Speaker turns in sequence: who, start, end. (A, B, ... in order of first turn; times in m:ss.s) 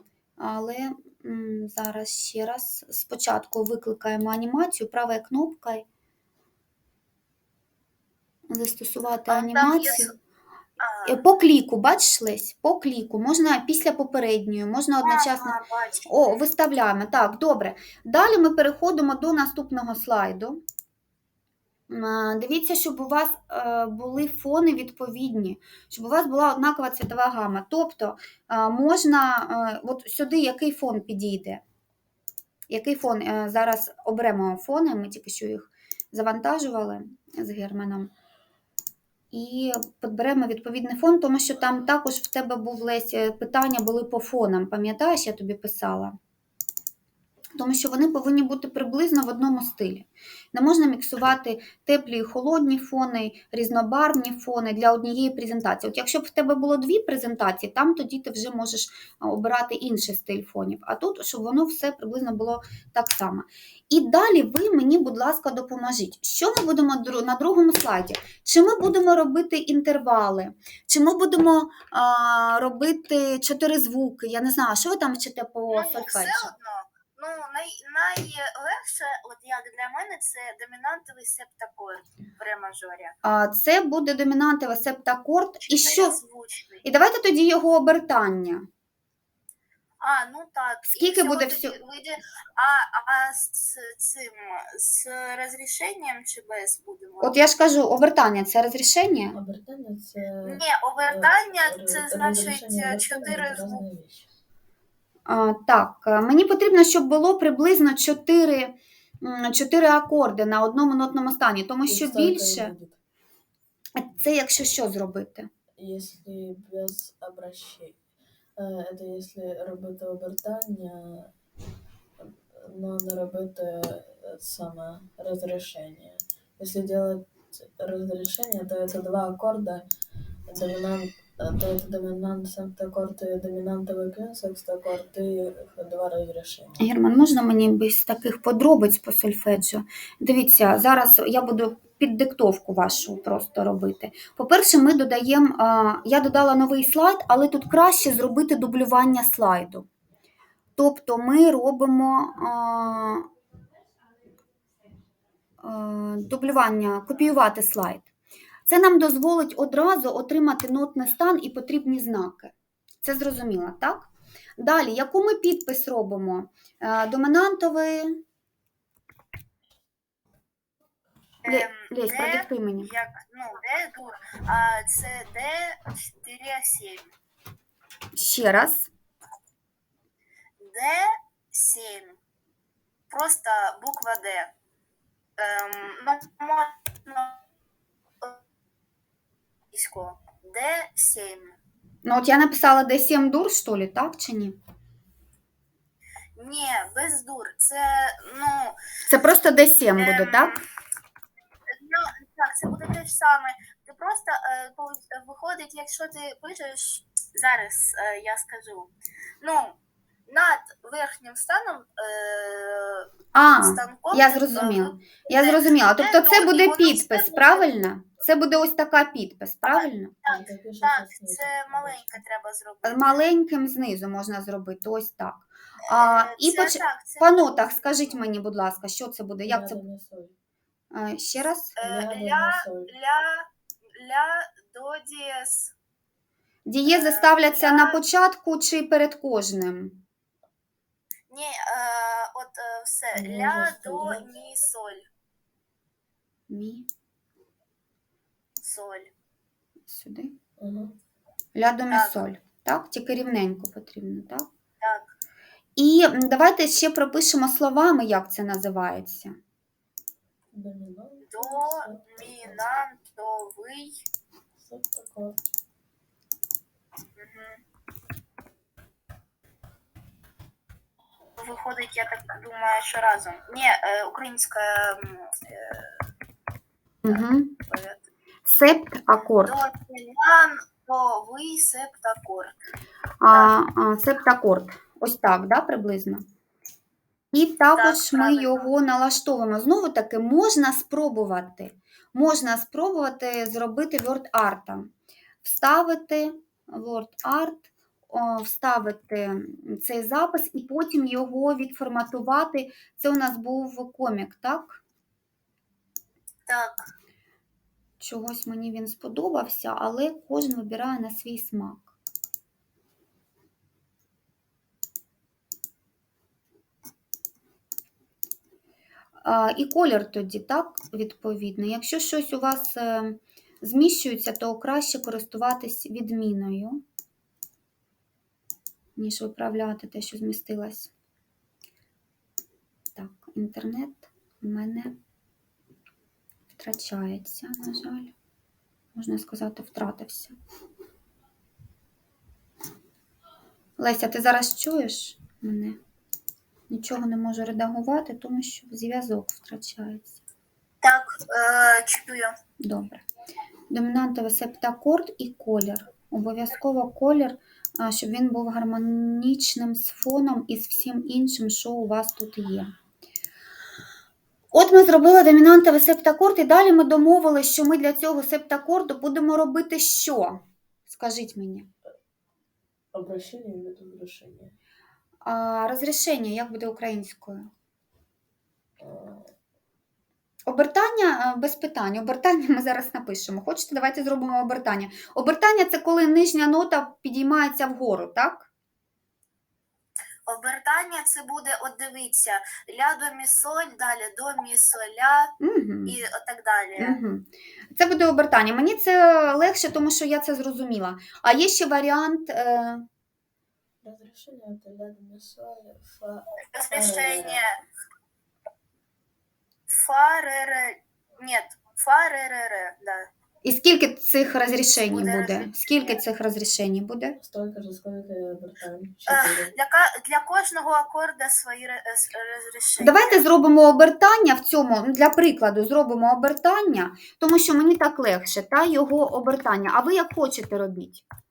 0:00.4-0:05.8 A
0:08.5-0:10.1 A
0:09.3-0:10.1 B
0:10.8-0:11.2 B
0:11.1-0:15.6 A
0:15.0-0:16.1 B
0:16.1-0:20.6 A
0:21.9-0:31.6 A
0:32.7-0:38.1 A
0:39.3-0:46.2 A
0:47.6-1:16.5 A
1:15.7-1:23.2 B
1:23.2-1:26.2 A
1:25.6-1:26.8 B
1:26.8-1:28.7 A
1:30.0-1:37.4 B
1:30.9-1:31.8 A
1:37.2-1:39.4 A
1:39.3-1:44.3 C
1:40.4-1:43.8 B
1:45.3-1:52.7 A
1:51.9-1:53.0 C
1:54.0-1:55.5 A
1:55.8-1:58.0 C
1:58.6-2:01.3 C
2:02.2-2:09.9 C
2:10.5-2:16.8 C
2:16.8-2:29.9 A
2:30.8-2:33.3 A
2:35.6-2:38.1 A
2:38.7-2:48.2 A
2:51.4-2:57.1 B
2:51.5-2:52.9 A
2:58.2-2:58.9 A
3:00.6-3:02.2 B
3:03.1-3:04.5 B
3:05.4-3:07.4 B
3:09.7-3:11.6 B
3:12.0-3:14.6 A
3:16.4-3:18.8 B
3:19.1-3:20.5 A
3:20.0-3:20.6 B
3:21.7-3:33.1 B
3:33.3-3:40.2 A
3:33.6-3:37.9 B
3:39.7-3:43.2 B
3:40.3-3:42.2 C
3:42.8-3:49.8 A
3:45.9-3:48.2 B
3:49.4-3:50.4 C
3:50.9-3:51.8 A
3:51.8-3:55.7 B
3:51.8-3:52.9 C
3:56.7-4:00.0 A
3:56.9-3:58.0 B
4:01.3-4:05.0 B
4:03.2-4:04.4 C
4:06.5-4:06.9 A
4:08.6-4:09.1 B
4:09.9-4:10.3 A
4:10.6-4:11.0 C
4:11.6-4:14.5 A
4:11.9-4:12.2 B
4:14.8-4:15.1 B
4:15.8-4:19.4 A
4:20.5-4:22.8 C
4:21.3-4:24.0 B
4:24.6-4:25.4 C
4:27.2-4:27.6 B
4:31.4-4:36.0 B
4:37.0-4:37.6 A
4:37.1-4:38.0 B
4:38.5-4:39.6 A
4:39.4-4:42.5 B
4:43.2-4:46.2 A
4:47.3-4:54.9 A
4:47.8-4:48.7 B
4:55.4-5:04.8 A
5:06.5-5:06.9 B
5:08.0-5:11.9 A
5:19.2-5:26.8 A
5:29.0-5:30.9 A
5:33.0-5:35.0 A
5:36.6-5:38.1 A
5:39.0-5:40.4 A
5:43.8-5:45.8 A
5:46.7-5:50.1 A
5:50.8-5:52.4 B
5:52.6-5:53.0 A
5:53.7-6:02.7 A
6:04.5-6:11.7 A
6:12.9-6:14.6 C
6:15.2-6:17.5 A
6:18.8-6:19.3 C
6:20.5-6:28.5 A
6:30.3-6:35.3 B
6:35.4-6:36.0 A
6:35.9-6:37.0 B
6:36.8-6:42.9 A
6:43.8-6:47.4 C
6:46.5-6:47.6 B
6:49.7-6:53.1 B
6:53.4-6:57.2 A
6:54.9-6:56.0 B
6:57.2-6:59.5 C
6:59.1-7:03.2 B
7:02.8-7:11.0 A